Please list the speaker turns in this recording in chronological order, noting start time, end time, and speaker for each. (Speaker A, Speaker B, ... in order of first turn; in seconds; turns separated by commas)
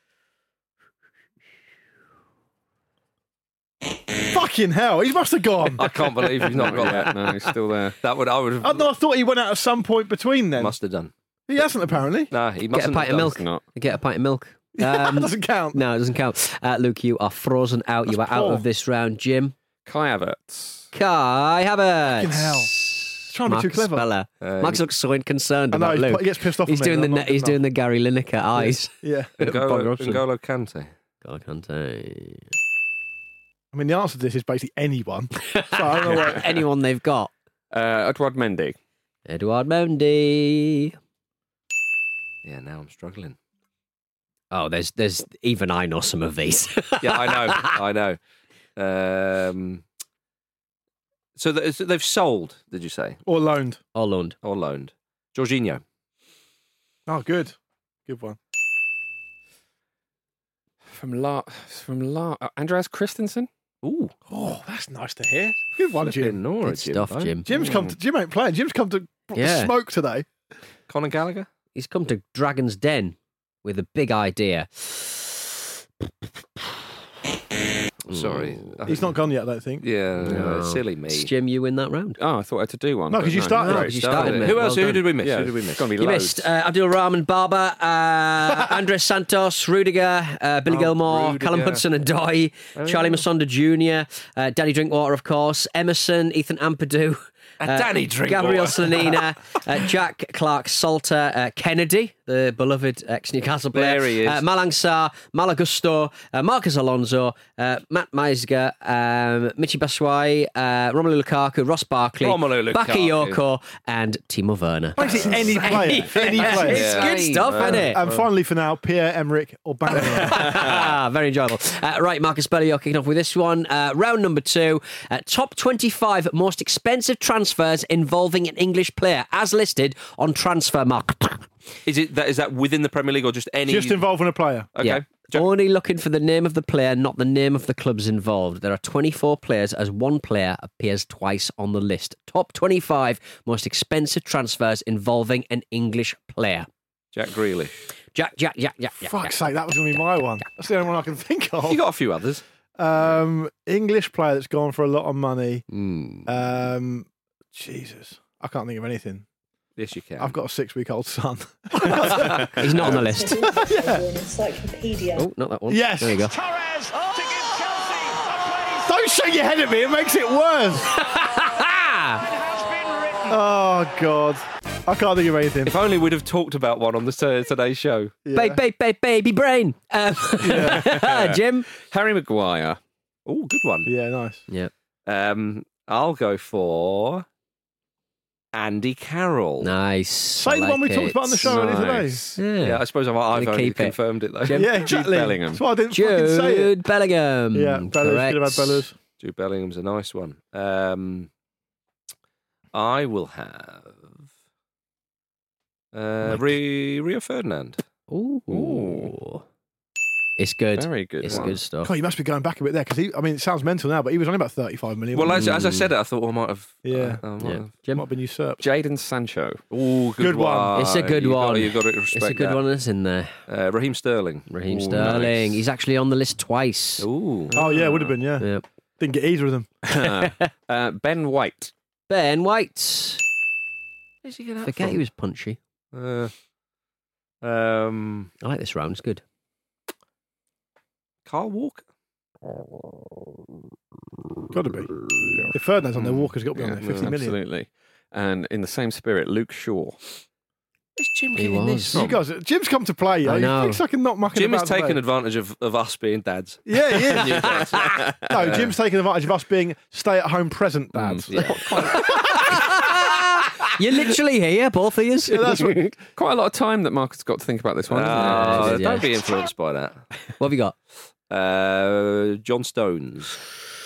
Speaker A: 4.2-6.0, Speaker B: 5.8-7.2, Speaker C: 6.5-8.0, Speaker B: 8.0-8.9, Speaker A: 8.6-10.7, Speaker B: 10.6-11.1, Speaker A: 11.5-12.3, Speaker B: 12.3-13.3, Speaker D: 12.7-19.6, Speaker C: 13.1-13.6, Speaker A: 14.8-15.8, Speaker A: 18.1-18.6, Speaker C: 19.9-20.9, Speaker D: 20.9-30.2, Speaker A: 22.2-22.7, Speaker A: 23.3-24.1, Speaker B: 24.4-24.8, Speaker A: 25.7-27.6, Speaker A: 28.6-29.3, Speaker B: 29.4-30.9, Speaker D: 31.2-32.5, Speaker A: 33.7-36.4, Speaker D: 35.5-37.3, Speaker C: 36.1-36.4, Speaker C: 37.7-38.8, Speaker D: 39.3-41.0, Speaker B: 42.4-43.4, Speaker D: 44.5-47.8, Speaker B: 47.0-48.2, Speaker B: 48.8-49.8, Speaker B: 51.4-53.2, Speaker A: 53.3-53.8, Speaker D: 54.0-54.4, Speaker B: 54.4-55.8, Speaker A: 57.1-57.6, Speaker A: 58.1-58.4, Speaker C: 60.9-63.5, Speaker B: 63.8-64.1, Speaker A: 64.3-66.4, Speaker B: 66.0-67.9, Speaker D: 66.6-67.5, Speaker A: 67.5-70.3, Speaker D: 69.3-69.7, Speaker B: 70.9-71.5, Speaker D: 71.8-75.4, Speaker B: 78.1-79.0, Speaker D: 78.1-78.9, Speaker A: 78.9-79.8, Speaker B: 79.8-81.3, Speaker D: 80.2-82.2, Speaker C: 82.2-86.5, Speaker A: 83.1-84.3, Speaker D: 83.4-85.1, Speaker B: 83.9-85.9, Speaker D: 86.0-118.0, Speaker B: 90.7-91.8, Speaker B: 92.8-93.2, Speaker B: 97.6-99.2, Speaker B: 103.7-104.4, Speaker B: 112.2-113.4, Speaker A: 115.0-120.7, Speaker B: 115.0-118.3, Speaker C: 117.0-117.4, Speaker D: 119.9-131.5, Speaker B: 131.9-134.1, Speaker A: 133.7-134.7, Speaker B: 134.8-135.5, Speaker D: 134.8-146.7, Speaker B: 147.1-147.8, Speaker D: 148.1-149.4, Speaker A: 149.1-151.8, Speaker B: 151.7-152.4, Speaker A: 152.8-155.7, Speaker D: 155.7-156.3, Speaker A: 156.2-159.2, Speaker B: 159.8-160.4, Speaker A: 160.2-162.7, Speaker D: 161.8-163.5, Speaker E: 162.9-165.3, Speaker A: 163.3-164.0, Speaker D: 165.2-166.3, Speaker A: 165.7-166.3, Speaker A: 168.8-170.9, Speaker D: 170.9-172.3, Speaker A: 173.3-175.7, Speaker B: 175.7-178.2, Speaker A: 178.2-178.6, Speaker D: 178.3-181.7, Speaker A: 180.4-181.0, Speaker C: 180.6-182.8, Speaker B: 183.3-183.9, Speaker A: 183.9-184.4, Speaker B: 185.1-187.2, Speaker B: 188.5-189.7, Speaker D: 189.6-194.9, Speaker A: 190.4-192.2, Speaker C: 191.5-192.4, Speaker B: 192.6-194.7, Speaker A: 194.5-196.7, Speaker C: 194.8-195.6, Speaker D: 195.9-198.9, Speaker A: 197.5-198.9, Speaker B: 199.2-201.3, Speaker B: 202.7-204.1, Speaker B: 205.9-207.8, Speaker D: 206.2-206.5, Speaker D: 208.1-209.4, Speaker C: 208.5-209.1, Speaker D: 210.4-211.9, Speaker C: 210.8-211.6, Speaker A: 211.3-215.6, Speaker B: 215.1-217.7, Speaker D: 215.4-215.8, Speaker A: 216.8-217.2, Speaker D: 217.4-218.1, Speaker A: 217.9-218.6, Speaker C: 218.6-219.6, Speaker B: 219.7-222.6, Speaker A: 220.2-220.9, Speaker D: 220.7-223.3, Speaker B: 223.5-225.6, Speaker D: 224.5-227.1, Speaker C: 224.7-225.2, Speaker B: 227.0-227.5, Speaker C: 227.5-228.0, Speaker A: 227.6-228.5, Speaker D: 228.4-228.7, Speaker A: 229.0-229.7, Speaker C: 229.9-231.7, Speaker D: 230.2-230.5, Speaker D: 232.1-233.2, Speaker B: 234.2-235.0, Speaker D: 234.6-235.6, Speaker B: 235.9-236.3, Speaker B: 237.4-238.3, Speaker D: 238.4-239.2, Speaker B: 241.3-241.8, Speaker A: 244.5-244.9, Speaker D: 245.1-245.5, Speaker A: 245.5-247.4, Speaker B: 246.0-246.2, Speaker C: 246.5-250.0, Speaker B: 251.0-252.2, Speaker D: 251.4-252.0, Speaker A: 251.9-255.0, Speaker D: 253.2-253.8, Speaker B: 254.3-257.9, Speaker A: 256.7-257.6, Speaker D: 257.4-258.1, Speaker A: 258.3-262.9, Speaker C: 260.9-261.3, Speaker D: 261.3-265.9, Speaker B: 261.4-262.3, Speaker A: 265.3-266.0, Speaker C: 266.1-268.9, Speaker B: 267.9-270.0, Speaker D: 268.1-269.3, Speaker D: 270.4-270.8, Speaker B: 271.3-273.4